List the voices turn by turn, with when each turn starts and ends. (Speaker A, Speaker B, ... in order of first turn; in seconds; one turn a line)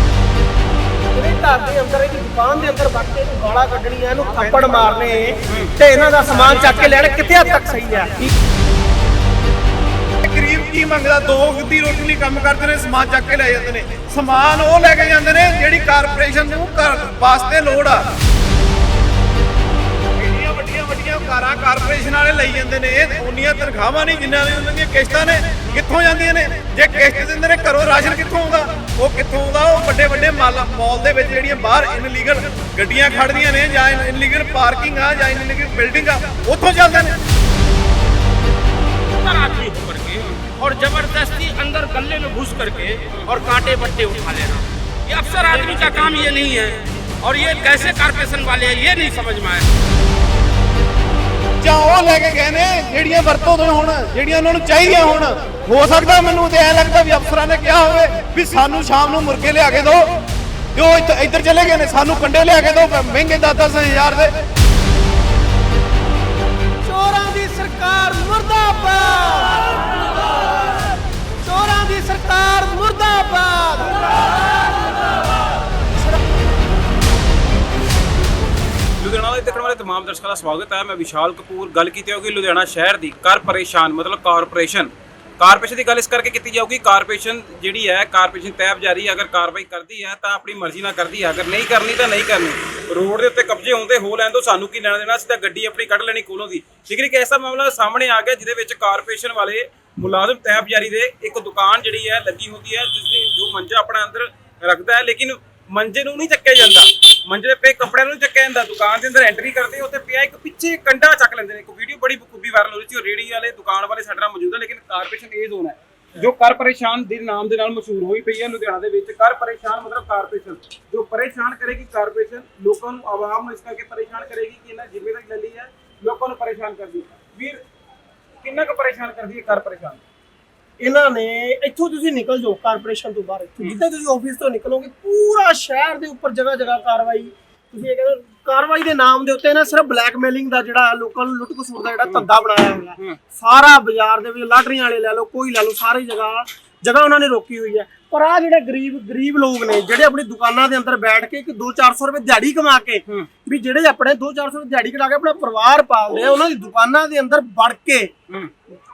Speaker A: 1.1-8.2
Speaker B: 10.2-18.1
Speaker B: 20.2-37.1
Speaker C: 39.2-49.6
Speaker B: 51.6-60.1
Speaker B: 60.8-64.3
Speaker A: 66.8-70.6
Speaker A: 71.4-74.5
Speaker D: 79.0-127.6
Speaker D: 128.4-130.0
Speaker A: 130.8-158.1